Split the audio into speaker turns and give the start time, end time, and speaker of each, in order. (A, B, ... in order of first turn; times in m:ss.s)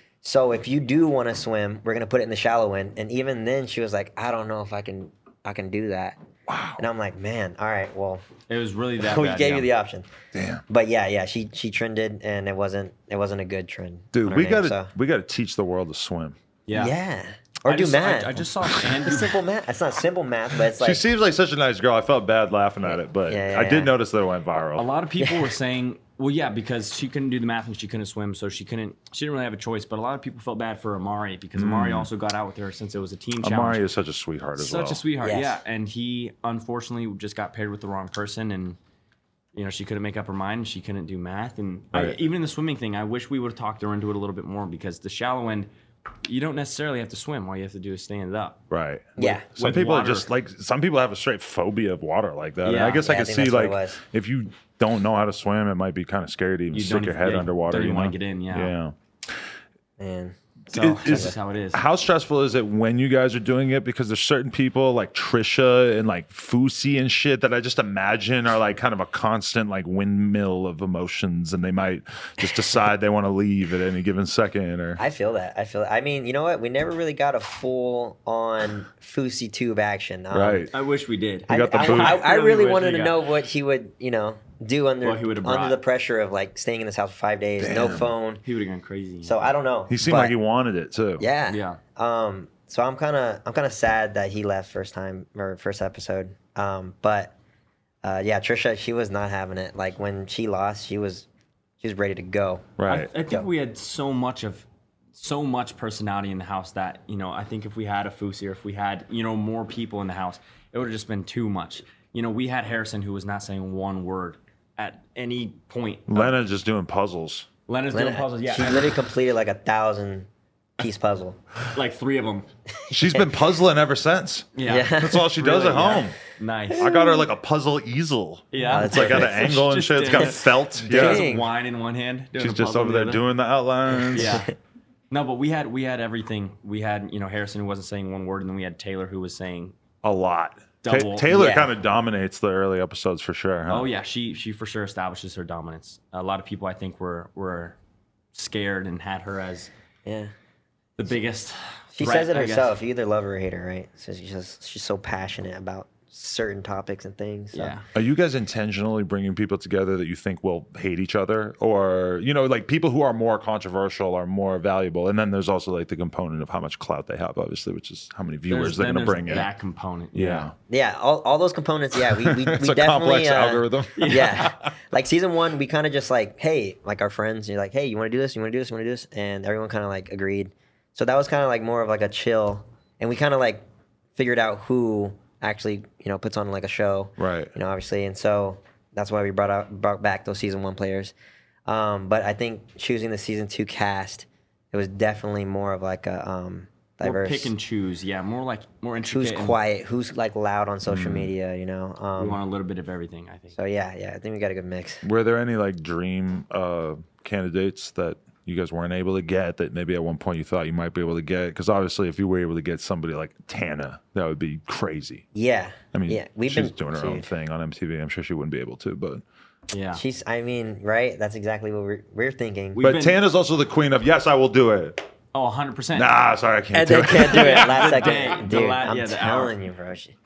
0:00.2-0:06.2 A
0:06.5-0:06.8 B
0:06.8-0:08.3 A
0:08.5-0:09.7 C
0:09.0-0:10.1 A
0:10.3-0:10.6 B
0:10.7-0:14.9 A
0:14.1-0:16.4 B
0:16.7-0:17.0 C
0:16.7-0:21.0 A
0:17.6-0:19.4 C
0:20.8-0:24.8 B
0:23.3-0:23.9 A
0:24.8-0:33.8 C
0:25.2-0:25.5 A
0:31.6-0:32.1 B
0:33.4-0:35.0 B
0:34.6-0:38.8 C
0:35.2-0:35.6 A
0:39.5-0:45.7 C
0:46.2-0:48.6 C
0:48.7-0:59.0 B
0:49.2-0:49.4 A
0:49.2-0:50.3 C
0:52.6-0:53.0 C
0:53.0-0:54.0 A
0:56.7-0:58.7 C
1:00.0-1:00.4 A
1:00.7-1:01.8 C
1:00.7-1:15.0 B
1:01.0-1:01.3 A
1:15.0-1:20.7 A
1:20.3-1:20.7 B
1:20.7-1:23.2 C
1:21.5-1:28.4 A
1:21.5-1:22.2 B
1:25.0-1:25.8 C
1:27.6-1:28.1 B
1:28.4-1:29.5 C
1:29.2-1:30.3 A
1:29.9-1:31.2 B
1:31.2-1:37.3 A
1:31.5-1:31.8 C
1:38.0-1:41.3 A
1:41.8-1:42.7 A
1:42.8-1:43.1 B
1:42.9-1:56.3 C
1:56.1-1:57.5 B
1:57.7-1:59.0 C
1:57.9-2:00.3 A
2:00.8-2:01.4 A
2:01.7-2:02.5 C
2:02.8-2:03.3 A
2:02.9-2:06.2 B
2:04.6-2:06.9 C
2:04.6-2:05.3 A
2:06.7-2:07.2 A
2:06.7-2:11.3 B
2:08.5-2:13.2 C
2:08.6-2:11.5 A
2:12.4-2:14.4 B
2:14.1-2:14.4 A
2:14.1-2:14.5 C
2:15.1-2:19.7 C
2:20.0-2:23.9 B
2:20.8-2:21.3 C
2:21.3-2:21.7 A
2:23.7-2:27.8 C
2:28.3-2:29.7 C
2:30.0-2:30.3 A
2:31.0-2:32.7 C
2:31.9-2:37.8 A
2:37.5-2:37.9 C
2:37.9-2:49.5 B
2:48.5-2:50.5 C
2:50.1-2:50.5 B
2:50.7-3:03.6 A
2:52.1-2:54.7 B
2:54.0-2:54.4 C
3:04.2-3:11.1 A
3:07.2-3:07.5 B
3:11.7-3:17.5 A
3:17.0-3:19.6 C
3:19.1-3:22.4 A
3:20.9-3:21.3 B
3:22.2-3:23.6 C
3:23.5-3:25.0 A
3:25.0-3:35.2 B
3:35.3-3:37.3 A
3:35.9-3:39.2 B
3:39.7-3:40.0 C
3:39.9-3:42.8 A
3:42.7-3:43.2 C
3:42.8-3:45.0 B
3:45.3-3:46.1 C
3:45.9-3:48.3 B
3:46.7-3:50.1 A
3:47.1-3:49.5 C